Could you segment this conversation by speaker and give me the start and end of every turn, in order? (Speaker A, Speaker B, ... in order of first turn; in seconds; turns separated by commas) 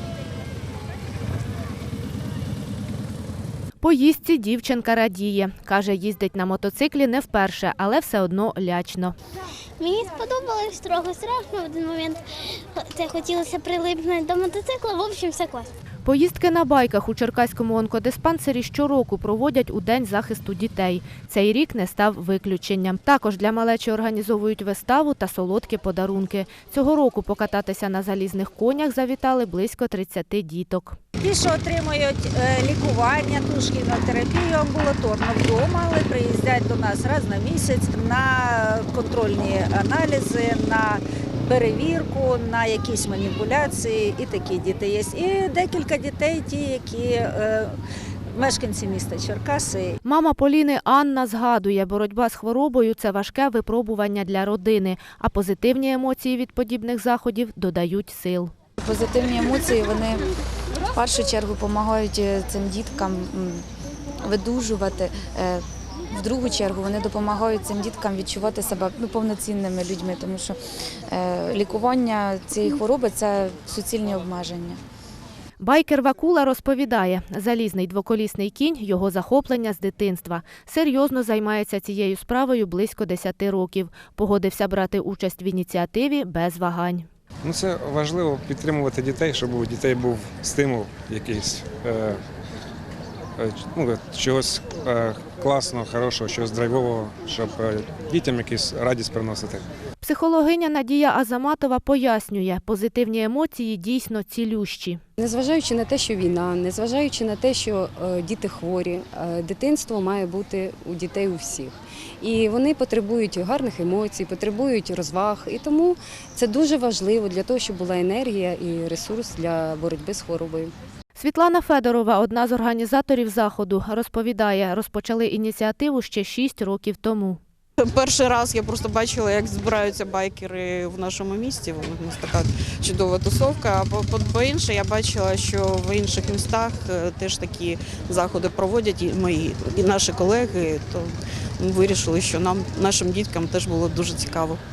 Speaker A: 3.8-9.1, Speaker B: 9.8-15.7, Speaker A: 16.0-31.0, Speaker C: 31.2-47.7, Speaker C: 48.4-49.9, Speaker A: 50.0-58.5, Speaker D: 58.9-60.2, Speaker D: 60.9-63.6, Speaker D: 64.3-65.6, Speaker D: 66.2-70.6, Speaker D: 71.1-74.8, Speaker A: 75.6-87.0, Speaker E: 87.4-92.2, Speaker E: 93.4-99.7, Speaker A: 100.0-105.0, Speaker F: 105.2-120.7, Speaker A: 121.1-127.4, Speaker G: 127.8-144.6